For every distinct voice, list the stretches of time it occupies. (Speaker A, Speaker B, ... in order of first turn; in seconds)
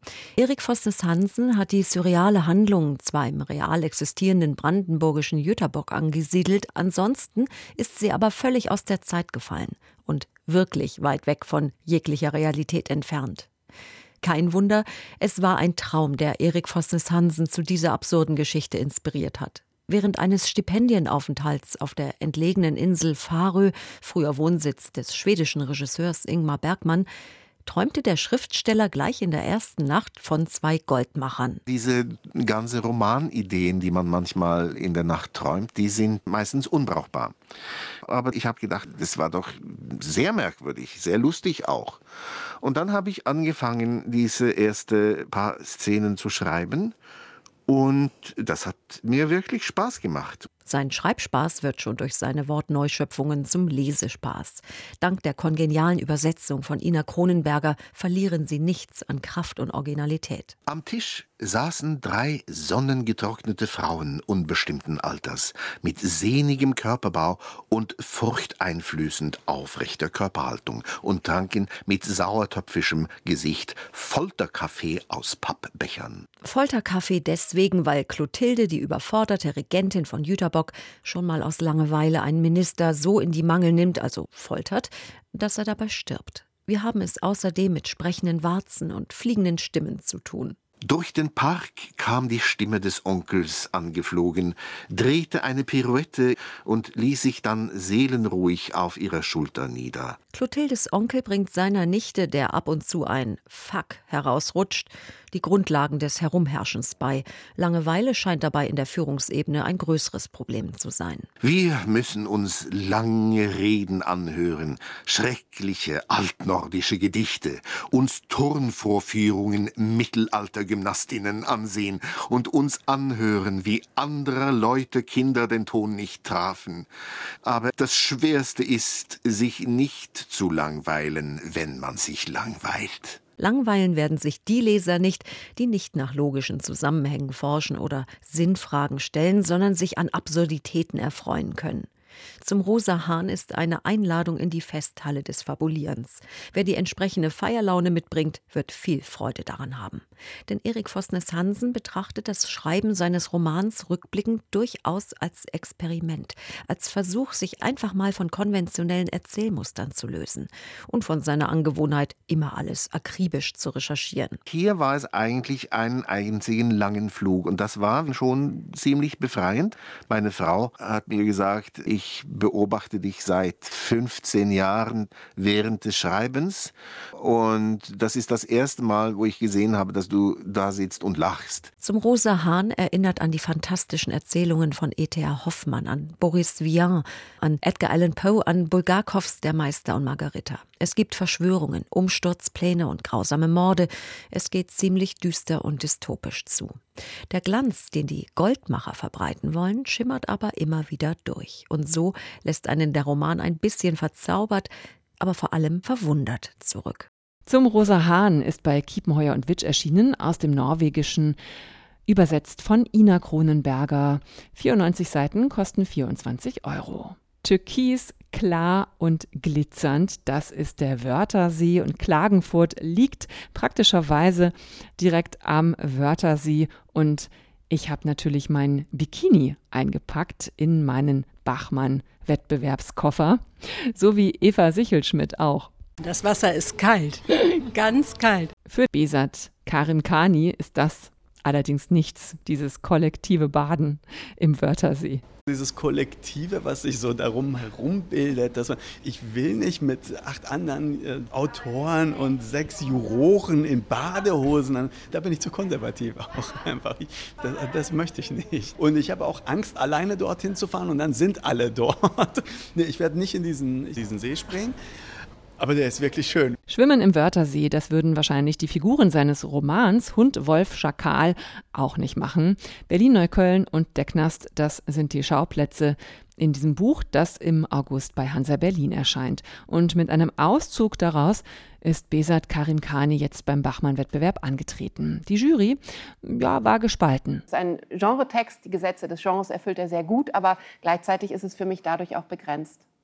Speaker A: 0.4-13.5, 14.2-27.1, 27.6-31.6, 50.6-60.5, 76.4-90.6, 100.3-111.3, 133.4-141.9, 142.4-164.4, 181.8-207.1
Speaker B: 31.7-37.4, 38.0-42.0, 42.6-47.0, 47.7-50.5, 60.7-76.3, 90.8-100.2, 111.4-126.9, 127.4-133.2, 164.5-181.7
Speaker C: 207.5-211.4, 212.1-235.7, 238.7-245.2, 266.7-287.4
Speaker D: 236.0-238.5
Speaker E: 245.5-264.8, 265.6-266.6
Speaker F: 287.5-292.8